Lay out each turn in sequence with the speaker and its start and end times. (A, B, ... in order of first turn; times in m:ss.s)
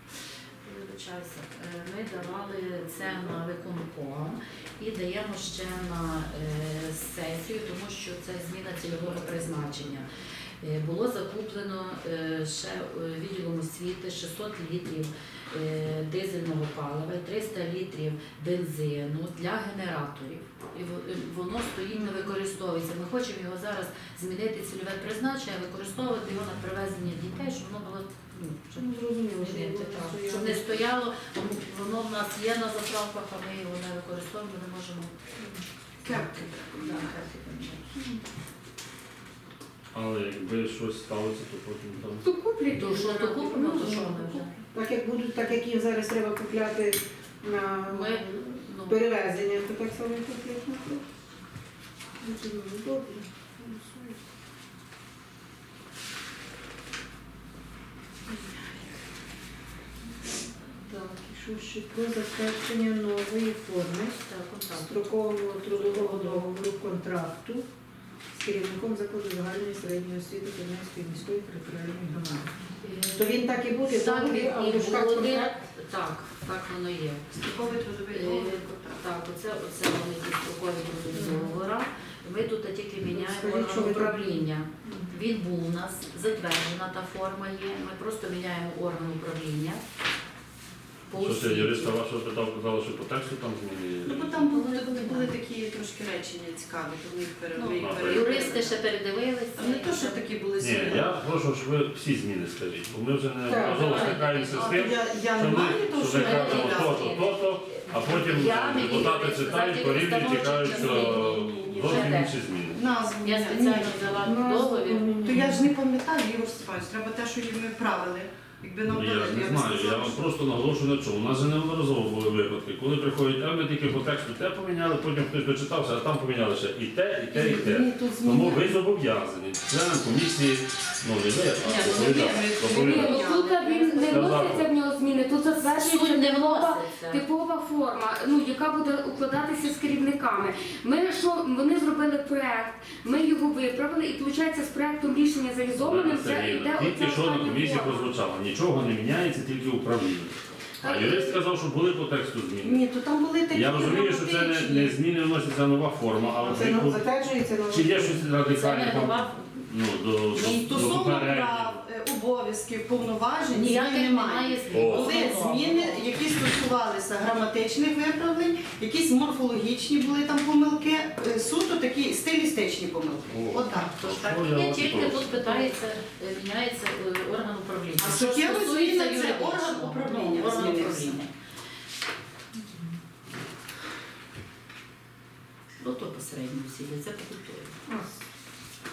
0:00.6-0:10.1 A
0:08.9-0:09.4 B
0:10.6-0:35.1 A
0:21.9-0:22.3 C
0:28.8-0:30.8 C
0:36.0-0:37.2 B
0:36.1-0:37.9 A
0:39.9-0:42.2 D
0:42.2-0:44.6 E
0:42.7-0:44.5 A
0:44.7-0:51.0 C
0:47.9-0:49.0 A
0:52.2-0:54.2 C
1:00.8-1:07.7 C
1:04.2-1:05.1 A
1:05.6-1:06.5 A
1:08.3-1:12.5 C
1:12.8-1:17.4 A
1:13.1-1:15.6 C
1:17.3-1:19.0 B
1:18.1-1:29.8 A
1:21.1-1:21.6 C
1:23.0-1:25.2 C
1:31.1-1:32.0 A
1:31.2-1:34.5 D
1:34.1-1:38.8 B
1:34.5-1:35.3 A
1:37.6-1:40.2 A
1:37.8-1:38.5 D
1:39.6-1:41.1 B
1:40.6-1:52.8 D
1:43.5-1:44.0 C
1:43.6-1:44.9 A
1:43.9-1:47.2 B
1:46.2-1:52.3 A
1:50.3-1:52.2 B
1:52.8-1:54.3 B
1:53.2-1:55.2 A
1:54.2-1:55.7 C
1:55.2-2:00.3 B
1:58.9-2:13.2 D
2:07.3-2:08.7 B
2:11.6-2:12.5 A
2:11.7-2:14.4 B
2:12.7-2:28.1 E
2:13.2-2:14.5 A
2:14.1-2:14.7 D
2:15.5-2:17.2 A
2:25.7-2:32.8 D
2:31.0-2:31.4 E
2:32.6-2:34.9 B
2:33.5-2:37.0 D
2:36.4-2:38.2 C
2:37.7-2:41.8 D
2:38.5-2:39.5 A
2:40.3-2:54.0 B
2:40.4-2:41.0 A
2:43.5-2:46.0 A
2:44.7-2:45.2 D
2:53.3-2:55.6 D
2:53.6-3:01.3 A
2:58.0-3:01.2 B
3:05.8-3:07.8 A
3:07.9-3:08.2 C